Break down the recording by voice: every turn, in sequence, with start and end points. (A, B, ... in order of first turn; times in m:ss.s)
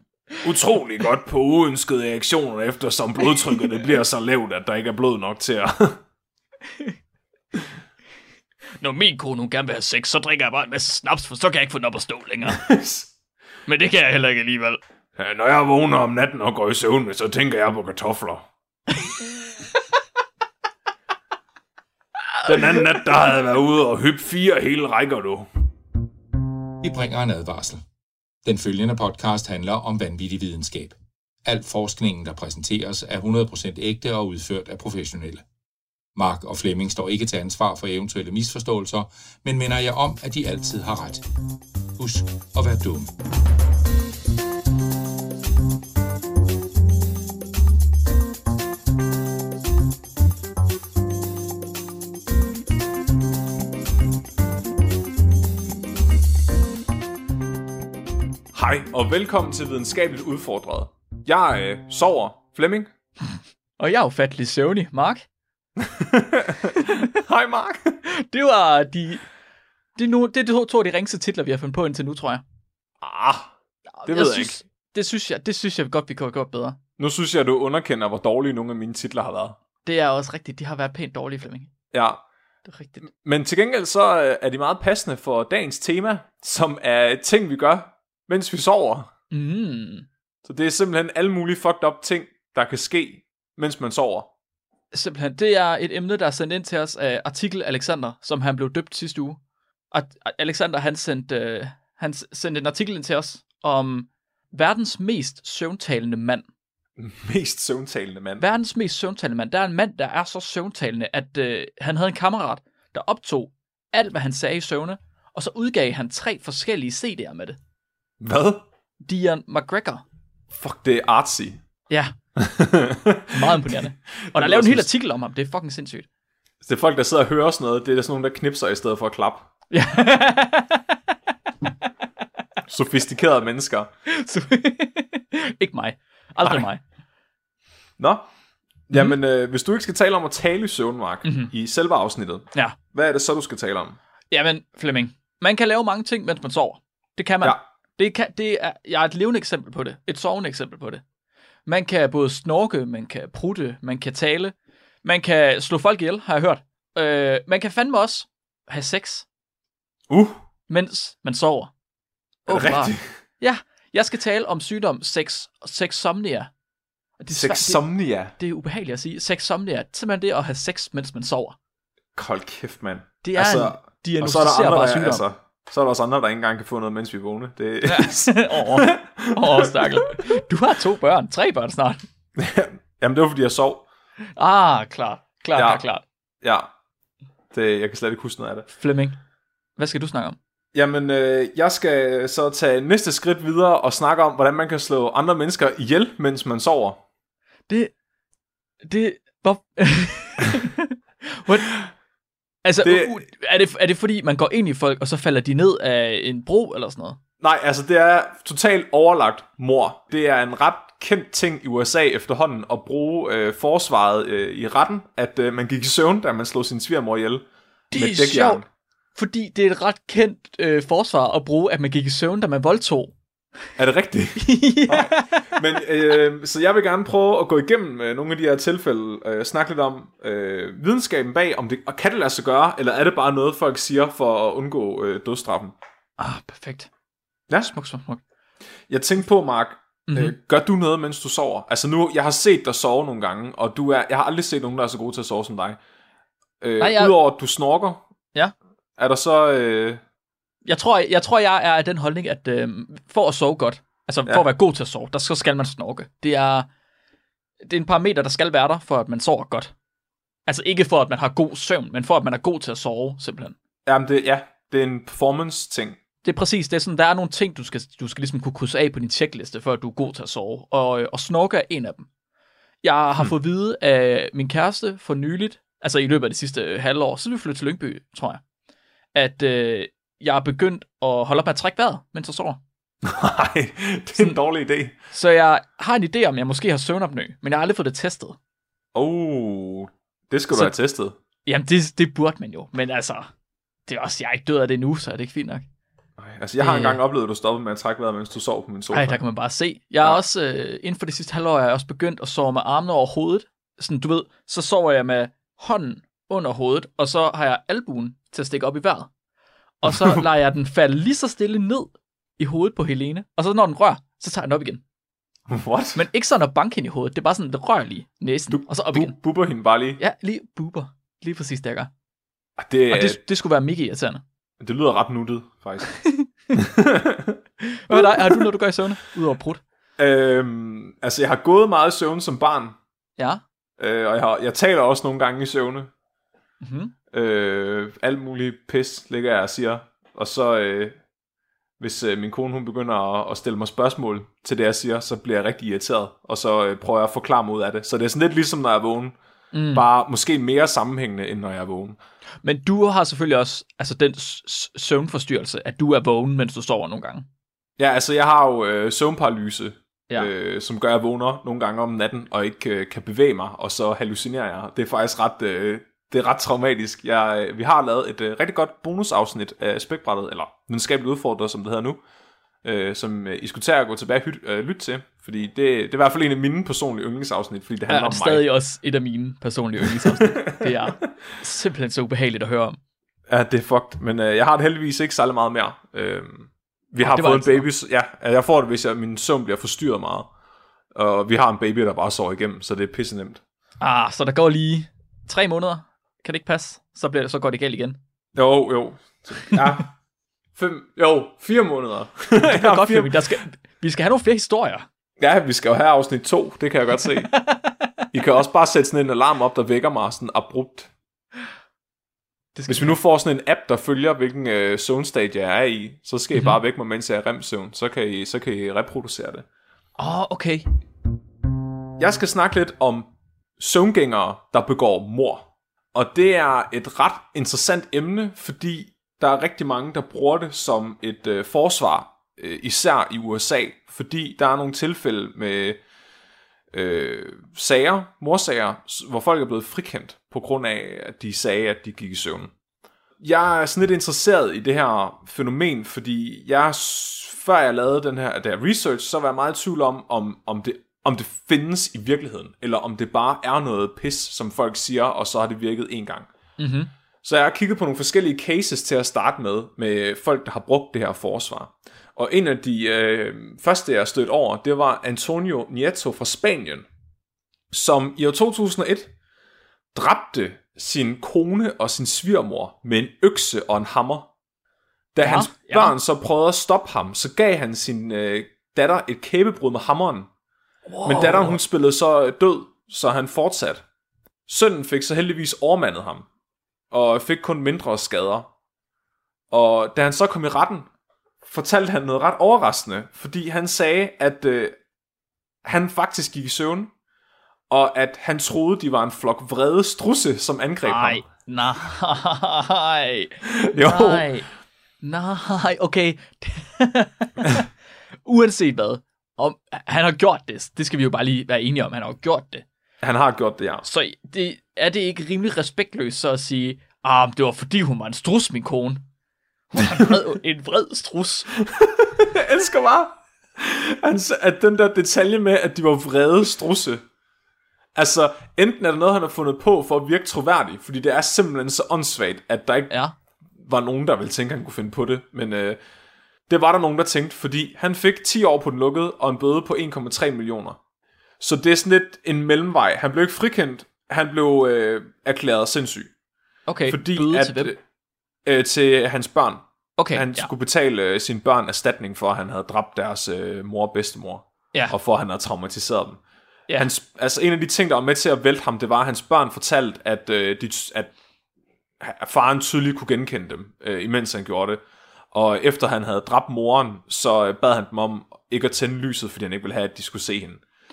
0:00.4-0:06.0 A
0:08.8-0:12.6 B
0:12.5-0:13.1 A
0:13.7-0:14.8 B
0:15.2-0:18.4 A
0:22.4-0:25.5 A
0:26.8-0:27.8 C
0:28.4-0:35.4 C
0:36.2-0:41.2 C
0:42.0-0:43.1 C
0:58.5-1:02.9 A
1:03.8-1:05.2 B
1:05.8-1:06.7 A
1:07.2-1:08.0 A
1:08.1-1:09.2 B
1:10.0-1:12.4 B
1:13.0-1:13.5 A
1:14.0-1:16.8 B
1:14.1-1:14.6 A
1:17.0-1:19.6 A
1:19.8-1:21.7 B
1:21.9-1:22.2 A
1:22.6-1:23.0 B
1:23.1-1:29.1 A
1:29.3-1:30.1 B
1:30.4-1:34.3 A
1:34.9-1:46.4 B
1:47.0-1:48.4 A
1:48.4-1:57.6 B
1:58.2-1:58.6 A
1:59.0-2:00.0 B
2:00.5-2:01.6 A
2:01.9-2:02.2 B
2:02.4-2:04.9 A
2:03.4-2:06.1 B
2:06.6-2:09.5 A
2:09.7-2:10.8 B
2:12.7-2:13.9 A
2:14.1-2:16.8 B
2:18.0-2:18.3 A
2:18.9-2:24.0 A
2:21.2-2:21.5 B
2:22.5-2:22.8 B
2:24.3-2:31.0 B
2:31.6-2:39.2 B
2:40.1-2:40.4 A
2:40.7-2:41.7 B
2:42.4-2:46.5 B
2:42.5-2:43.2 A
2:47.2-2:51.6 B
2:47.3-2:48.4 A
2:52.1-3:00.2 A
2:53.2-2:55.2 B
2:57.8-3:02.0 B
3:02.4-3:03.8 A
3:04.4-3:06.0 B
3:05.5-3:05.8 A
3:06.4-3:06.7 A
3:07.5-3:08.7 A
3:08.7-3:09.2 B
3:09.8-3:10.4 B
3:10.7-3:17.0 A
3:18.8-3:20.7 B
3:22.6-3:27.2 B
3:22.8-3:23.2 A
3:27.4-3:38.6 A
3:37.9-3:38.6 B
3:39.2-3:43.1 B
3:43.8-3:55.7 A
3:44.4-3:45.8 B
3:56.2-3:56.9 B
3:57.6-3:58.2 B
3:58.9-4:05.8 A
4:00.1-4:00.4 B
4:06.6-4:08.0 A
4:06.8-4:07.2 B
4:09.0-4:10.0 A
4:10.6-4:16.7 B
4:17.6-4:19.7 B
4:20.4-4:23.6 B
4:23.8-4:26.0 A
4:26.2-4:32.1 B
4:32.8-4:38.4 B
4:39.1-4:42.6 B
4:43.0-4:45.0 A
4:44.1-4:44.4 B
4:45.1-4:48.4 B
4:48.9-4:51.2 A
4:50.5-4:50.8 B
4:51.4-4:53.3 B
4:53.9-4:55.6 B
4:56.2-4:59.2 A
4:56.6-4:57.0 B
4:58.9-5:09.1 B
5:09.8-5:14.8 B
5:09.9-5:10.2 A
5:15.5-5:16.0 A
5:16.0-5:19.2 B
5:18.5-5:20.0 A
5:20.0-5:21.9 B
5:22.6-5:23.2 A
5:22.9-5:24.2 B
5:24.6-5:25.8 A
5:25.8-5:26.2 B
5:26.6-5:27.4 A
5:27.9-5:29.6 B
5:27.9-5:28.4 A
5:30.0-5:32.8 A
5:33.2-5:33.4 B
5:33.8-5:35.9 A
5:36.6-5:36.9 B
5:37.1-5:41.0 A
5:41.8-5:49.2 A
5:49.5-5:49.9 B
5:49.7-5:52.0 A
5:52.4-5:57.3 B
5:57.8-6:12.0 A
6:12.6-6:18.5 A
6:17.9-6:22.8 B
6:19.9-6:21.1 A
6:23.3-6:30.3 A
6:27.0-6:27.7 B
6:30.9-6:33.4 A
6:33.8-6:38.0 B
6:38.3-6:39.9 A
6:39.5-6:39.8 B
6:40.6-6:43.3 A
6:42.4-6:44.9 B
6:45.2-6:47.3 A
6:47.0-6:48.0 B
6:48.1-6:50.9 A
6:52.5-6:53.0 B
6:52.7-6:59.4 A
6:56.3-6:56.6 B
7:00.0-7:00.7 B
7:02.0-7:15.8 A
7:16.7-7:22.5 A
7:23.2-7:36.3 A
7:36.6-7:36.9 B
7:37.2-7:46.9 A
7:47.7-7:49.1 A
7:49.9-7:54.3 A
7:55.1-8:00.3 A
7:55.2-7:56.0 B
8:00.9-8:01.6 B
8:01.0-8:03.8 A
8:04.5-8:06.2 A
8:06.9-8:08.5 A
8:09.5-8:10.9 A
8:11.4-8:14.8 A
8:15.6-8:16.9 A
8:17.7-8:21.3 A
8:20.8-8:24.5 B
8:23.4-8:24.3 A
8:25.0-8:27.7 B
8:28.2-8:32.6 B
8:33.0-8:33.8 A
8:33.8-8:39.0 B
8:39.7-8:41.5 B
8:41.6-8:47.0 A
8:47.9-8:52.9 A
8:52.9-8:53.1 B
8:53.6-8:55.8 A
8:56.5-9:00.8 A
9:01.4-9:06.1 A
9:06.7-9:07.7 B
9:06.9-9:07.8 A
9:08.4-9:16.2 A
9:10.0-9:10.5 B
9:16.7-9:21.1 A
9:22.0-9:30.6 A